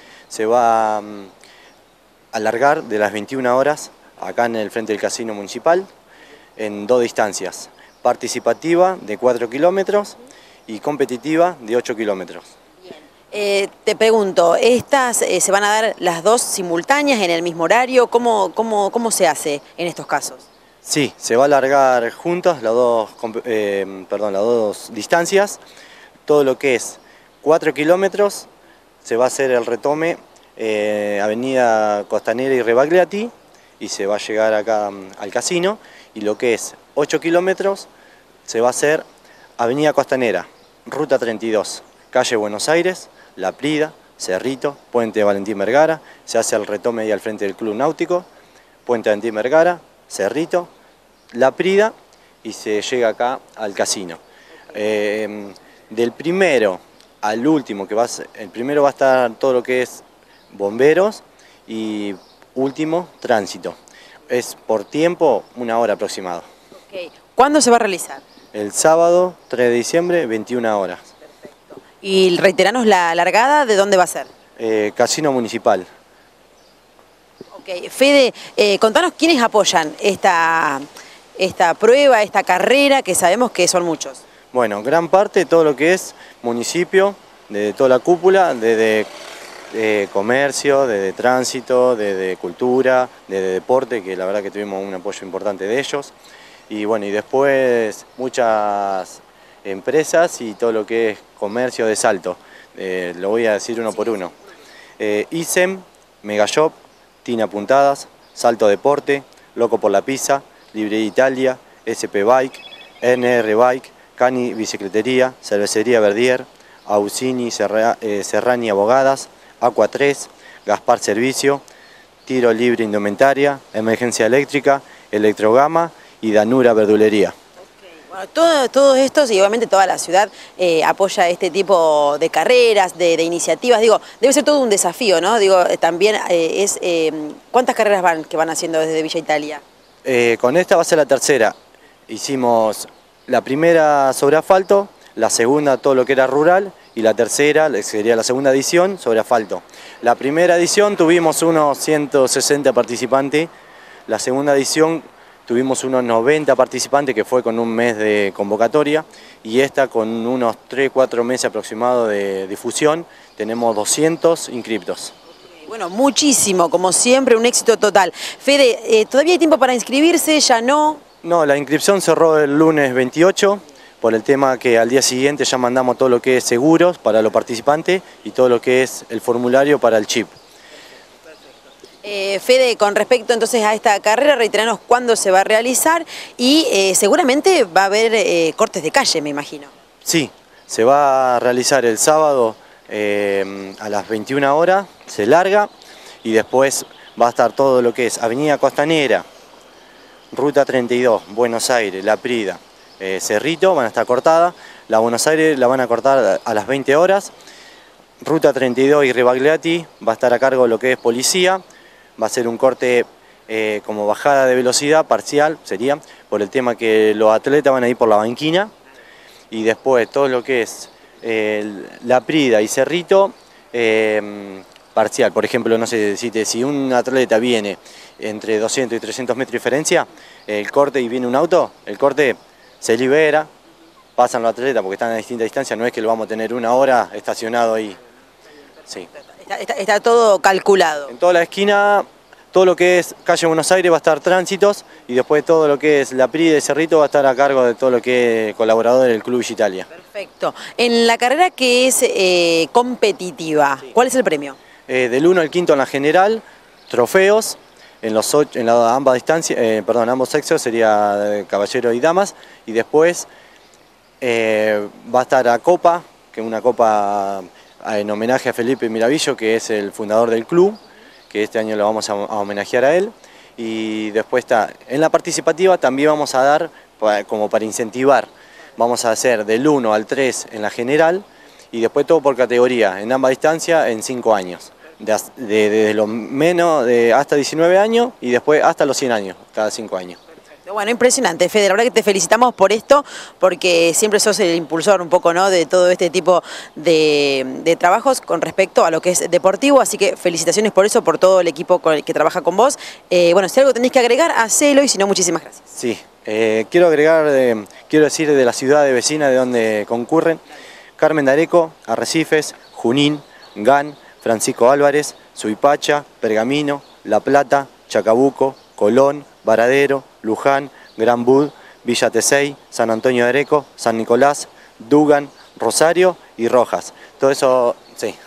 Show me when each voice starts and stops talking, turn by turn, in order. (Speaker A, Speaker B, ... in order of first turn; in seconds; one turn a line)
Speaker A: 0.3-1.3
Speaker A: 2.3-5.9
Speaker A: 6.6-12.5
Speaker B: 13.3-20.5
Speaker A: 20.8-25.6
Speaker A: 26.3-28.5
Speaker A: 29.0-37.9
Speaker A: 38.5-39.0
Speaker A: 39.6-48.3
Speaker A: 48.9-50.7
Speaker A: 51.3-54.2
Speaker A: 54.7-63.8
Speaker A: 64.3-66.5
Speaker B: 66.9-68.2
Speaker A: 68.5-71.1
Speaker B: 71.8-74.3
Speaker A: 74.6-75.9
Speaker B: 77.5-80.8
Speaker B: 81.4-84.2
Speaker A: 84.5-89.1
Speaker A: 89.7-96.1
Speaker A: 96.7-104.3
Speaker A: 105.0-121.6
Speaker A: 122.3-127.3
Speaker B: 128.1-139.6
Speaker A: 140.1-141.5
Speaker A: 142.1-153.5
Speaker A: 154.1-165.1
Speaker B: 165.7-171.0
Speaker A: 171.2-180.3
Speaker B: 182.0-189.7
Speaker A: 190.1-195.7
Speaker A: 196.2-199.2
Speaker A: 200.3-207.3
Speaker A: 208.2-211.6
Speaker A: 212.2-218.7
Speaker A: 219.5-233.5
Speaker A: 234.2-238.0
Speaker B: 239.3-241.1
Speaker A: 241.1-249.9
Speaker B: 249.9-254.6
Speaker A: 254.9-263.3
Speaker A: 264.2-270.8
Speaker A: 271.3-290.2
Speaker B: 290.7-305.6
Speaker A: 305.8-310.4
Speaker A: 311.0-328.2